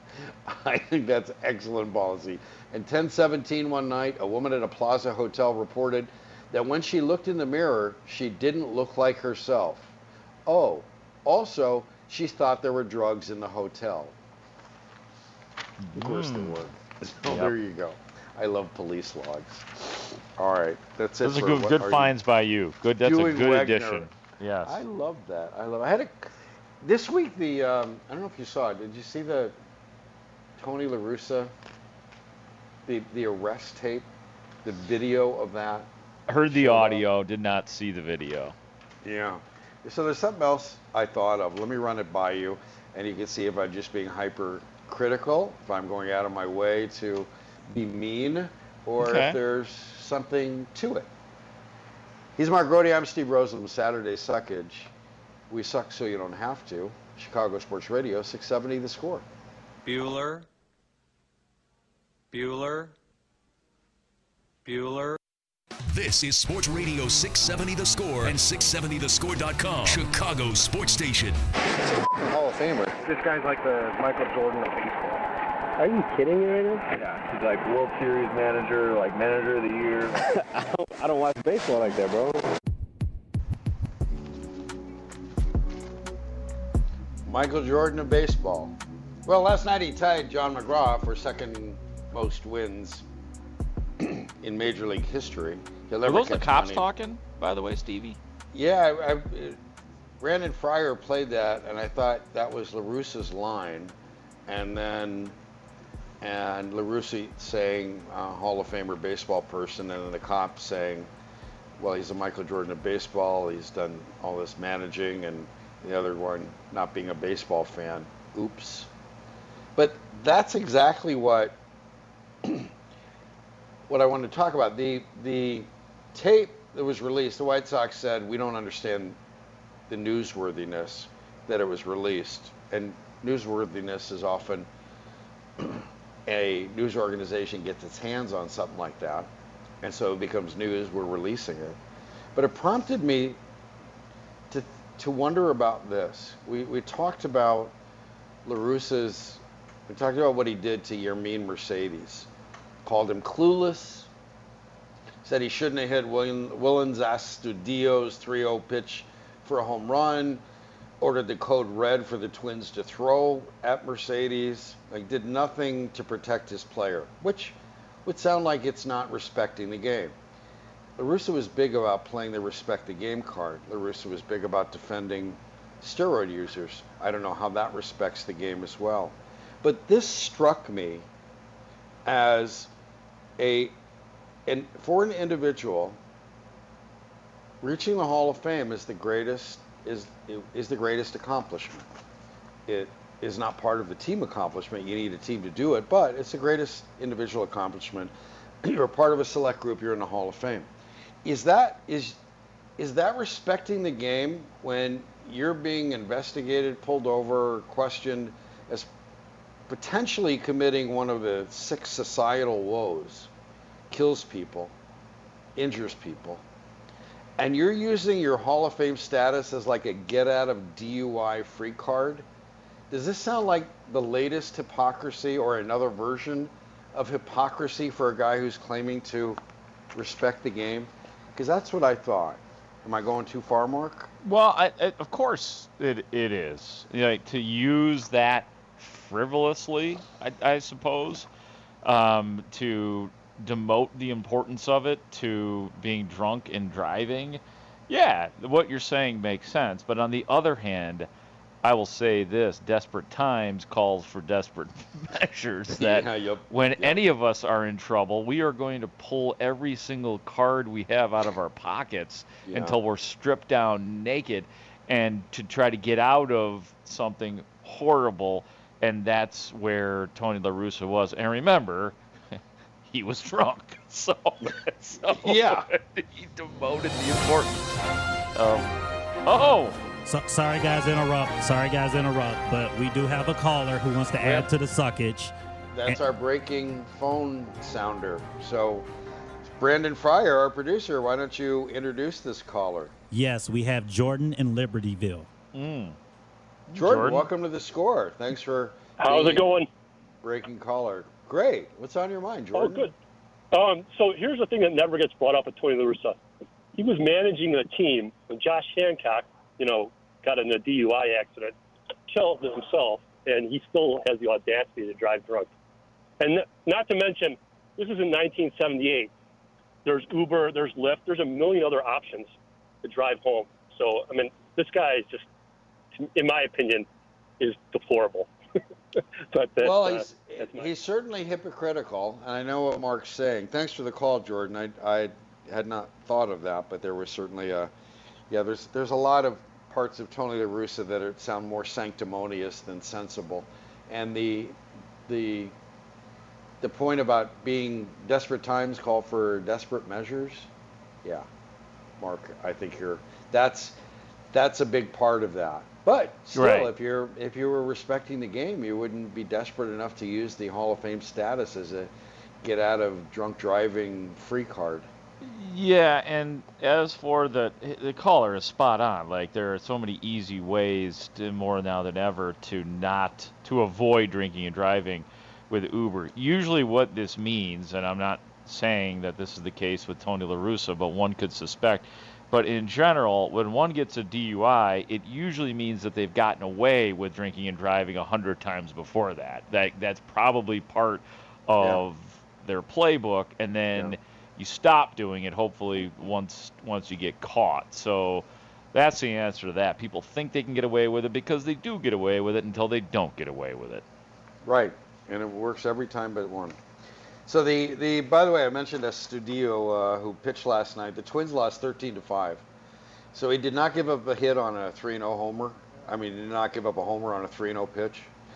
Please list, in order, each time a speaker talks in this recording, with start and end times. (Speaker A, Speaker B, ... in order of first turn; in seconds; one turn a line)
Speaker A: 0.5-9.9
Speaker A: 10.5-14.2
Speaker B: 15.8-16.6
Speaker A: 15.9-22.1
Speaker B: 17.3-17.5
Speaker B: 21.2-24.8
Speaker A: 23.0-24.1
Speaker A: 24.6-29.5
Speaker A: 30.6-31.5
Speaker A: 32.9-34.1
Speaker A: 34.6-35.9
Speaker B: 36.3-38.6
Speaker A: 36.5-37.1
Speaker A: 39.0-51.1
Speaker B: 49.0-49.4
Speaker A: 52.4-54.9
Speaker A: 55.5-59.3
Speaker C: 65.9-71.4
Speaker D: 72.2-75.2
Speaker D: 75.8-82.5
Speaker A: 87.2-93.0
Speaker A: 94.0-96.9
Speaker B: 96.0-98.2
Speaker A: 98.5-99.6
Speaker A: 100.2-103.9
Speaker A: 104.5-105.4
Speaker A: 106.2-111.1
Speaker A: 111.8-118.9
Speaker A: 119.8-121.6
Speaker A: 122.4-122.7
Speaker A: 123.9-129.2
Speaker A: 129.9-134.7
Speaker A: 135.6-139.3
Speaker A: 139.8-141.8
Speaker A: 142.3-143.4
Speaker A: 144.5-147.8
Speaker A: 148.4-152.3
Speaker A: 152.8-154.1
Speaker A: 155.2-160.4
Speaker A: 161.0-170.2
Speaker A: 171.0-181.1
Speaker A: 182.1-182.7
Speaker A: 183.4-183.8
Speaker A: 184.5-186.0
Speaker A: 187.6-191.9
Speaker A: 192.7-200.7
Speaker A: 201.2-202.2
Speaker A: 202.8-208.9
Speaker A: 209.7-213.3
Speaker A: 213.9-214.7
Speaker A: 215.6-216.4
Speaker A: 217.4-222.3
Speaker A: 222.9-229.4
Speaker A: 229.9-234.1
Speaker B: 234.2-241.3
Speaker B: 241.8-251.1
Speaker B: 251.6-272.0
Speaker A: 255.7-257.0
Speaker A: 262.5-262.8
Speaker B: 272.9-277.6
Speaker A: 275.1-275.7
Speaker B: 278.3-278.7
Speaker B: 279.3-279.8
Speaker E: 280.1-285.3
Speaker A: 285.7-288.9
Speaker A: 289.4-292.9
Speaker E: 293.1-295.3
Speaker B: 295.5-296.0
Speaker A: 296.7-299.5
Speaker B: 296.7-297.3
Speaker F: 299.0-299.7
Speaker A: 300.2-302.9
Speaker F: 302.6-302.9
Speaker F: 303.5-306.2
Speaker F: 306.8-311.5
Speaker F: 312.1-315.5
Speaker F: 316.2-319.1
Speaker F: 319.9-322.3
Speaker F: 322.8-325.3
Speaker F: 326.0-326.9
Speaker F: 327.4-328.3
Speaker F: 329.3-330.7
Speaker A: 329.6-337.7
Speaker A: 338.3-345.6
Speaker A: 346.6-350.5
Speaker A: 352.0-353.8
Speaker A: 354.3-361.9
Speaker B: 356.3-356.7
Speaker A: 362.4-364.9
Speaker B: 365.2-403.8
Speaker A: 404.4-406.6
Speaker A: 407.3-412.4
Speaker A: 413.1-418.1